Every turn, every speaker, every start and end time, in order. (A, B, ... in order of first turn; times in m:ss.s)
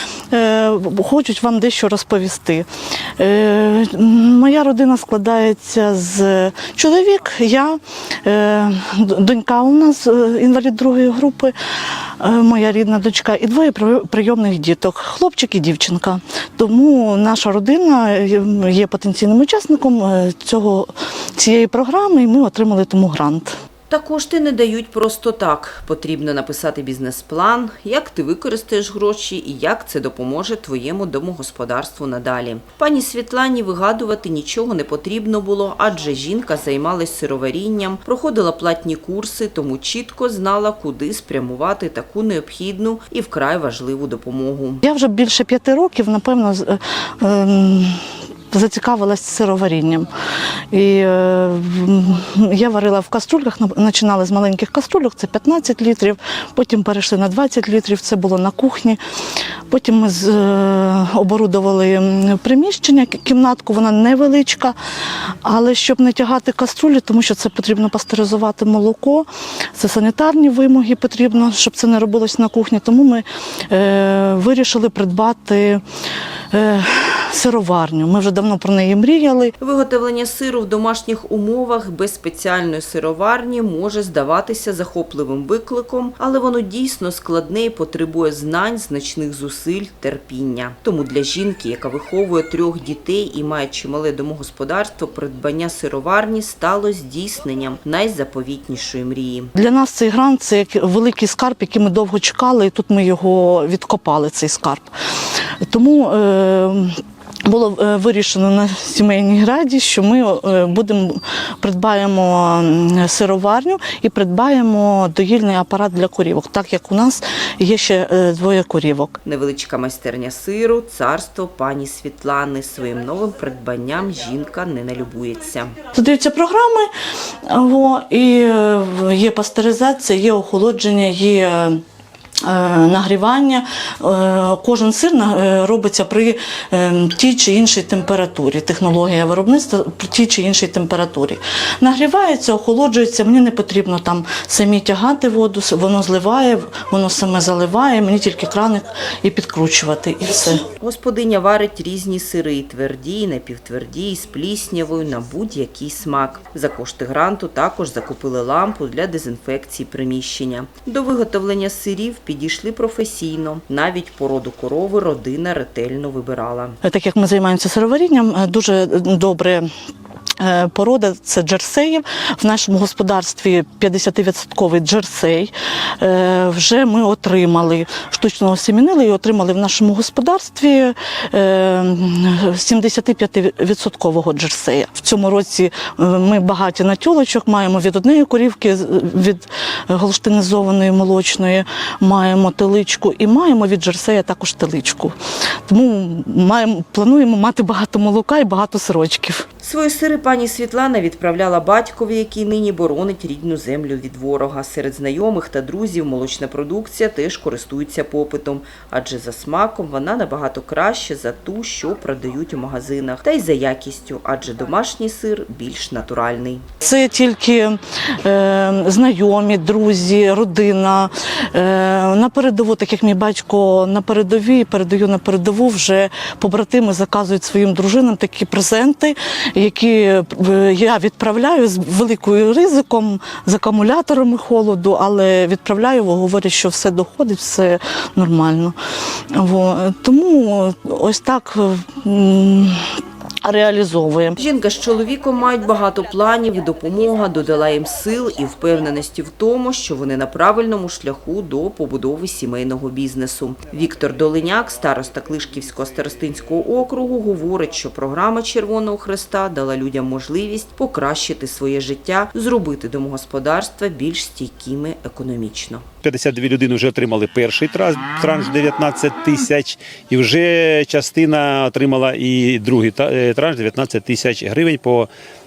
0:00.3-0:02.7 A
0:03.2-0:11.6 A
0:12.2-0:23.5 A
0:23.9-0:44.8 B
0:44.8-0:50.1 A
0:50.7-0:59.0 A
0:59.7-1:04.8 A
1:05.4-1:15.8 A
1:16.5-1:19.5 A
1:19.6-1:39.5 B
1:39.6-1:44.9 A
1:45.6-1:59.2 A
1:59.2-2:05.8 B
2:05.9-2:06.9 A
2:07.4-2:11.8 A
2:12.4-2:30.6 A
2:30.8-2:46.8 B
2:46.8-2:49.7 A
2:50.4-3:15.2 A
3:15.7-3:19.4 A
3:19.6-3:36.6 B
3:36.8-3:58.8 A
3:59.3-4:02.8 A
4:03.4-4:04.4 A
4:04.4-4:25.8 B
4:26.0-4:35.1 C